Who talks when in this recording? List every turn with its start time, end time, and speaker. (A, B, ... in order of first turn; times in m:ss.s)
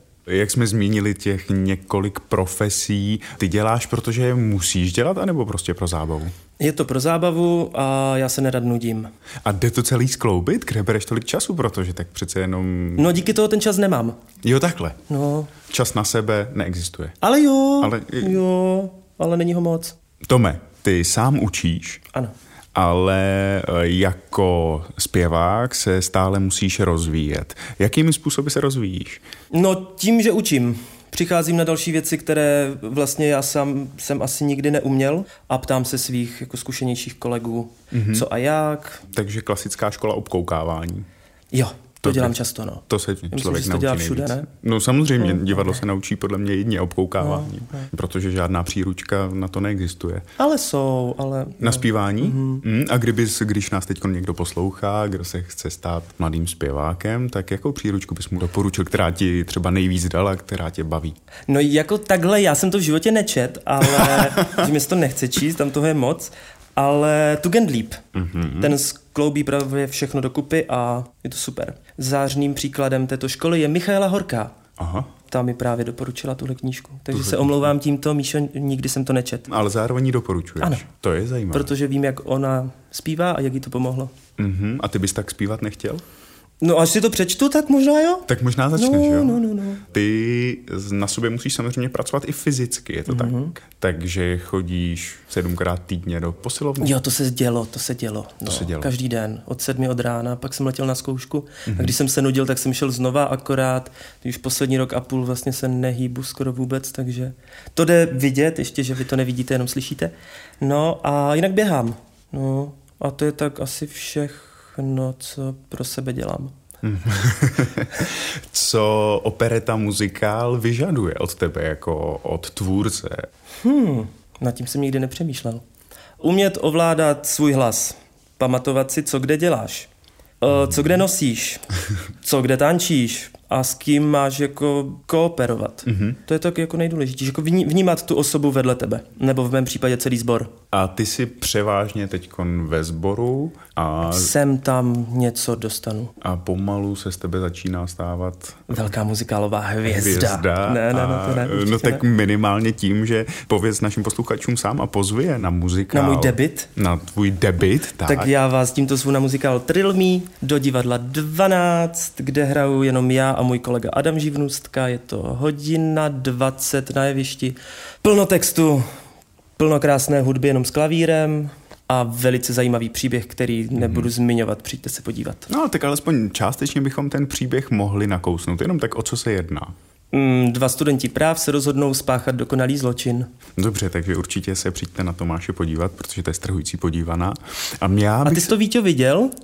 0:00.3-0:06.3 A
0:06.6-0:09.1 B
0:09.4-0:13.2 A
0:13.0-0:14.2 B
0:14.4-0:15.0 A
0:15.1-0:15.5 B
0:15.7-0:17.2 A
0:17.2-0:20.0 B
0:17.8-0:18.4 A
0:20.3-0:22.0 A
0:22.8-0:29.2 A
0:29.5-0:39.0 B
0:37.9-0:38.3 A
0:39.1-0:41.1 A
0:41.5-0:44.5 B
0:42.0-0:42.4 A
0:42.9-0:50.2 A
0:45.2-0:45.6 B
0:47.2-0:47.8 B
0:50.4-0:52.6 B
0:51.6-1:01.2 A
1:01.5-1:08.0 B
1:08.1-1:08.8 A
1:08.6-1:14.6 B
1:14.8-1:15.1 A
1:15.2-1:19.5 B
1:17.1-1:17.7 A
1:19.5-1:21.7 A
1:21.5-1:24.1 B
1:24.4-1:26.0 A
1:26.6-1:29.8 B
1:28.3-1:37.0 A
1:33.1-1:33.6 B
1:36.8-1:56.5 B
1:38.4-1:38.9 A
1:41.7-1:42.0 A
1:56.8-2:03.3 A
2:03.6-2:05.6 B
2:06.2-2:09.9 B
2:10.4-2:11.6 B
2:12.2-2:20.5 B
2:15.9-2:16.2 A
2:20.7-2:24.3 A
2:24.0-2:26.1 B
2:26.2-2:28.7 A
2:28.7-2:32.0 B
2:29.8-2:38.3 A
2:35.9-2:36.7 B
2:38.0-2:48.8 B
2:49.6-2:55.5 B
2:53.8-2:54.1 A
2:55.5-2:59.7 A
3:00.1-3:03.3 B
3:03.6-3:08.6 A
3:08.2-3:09.3 B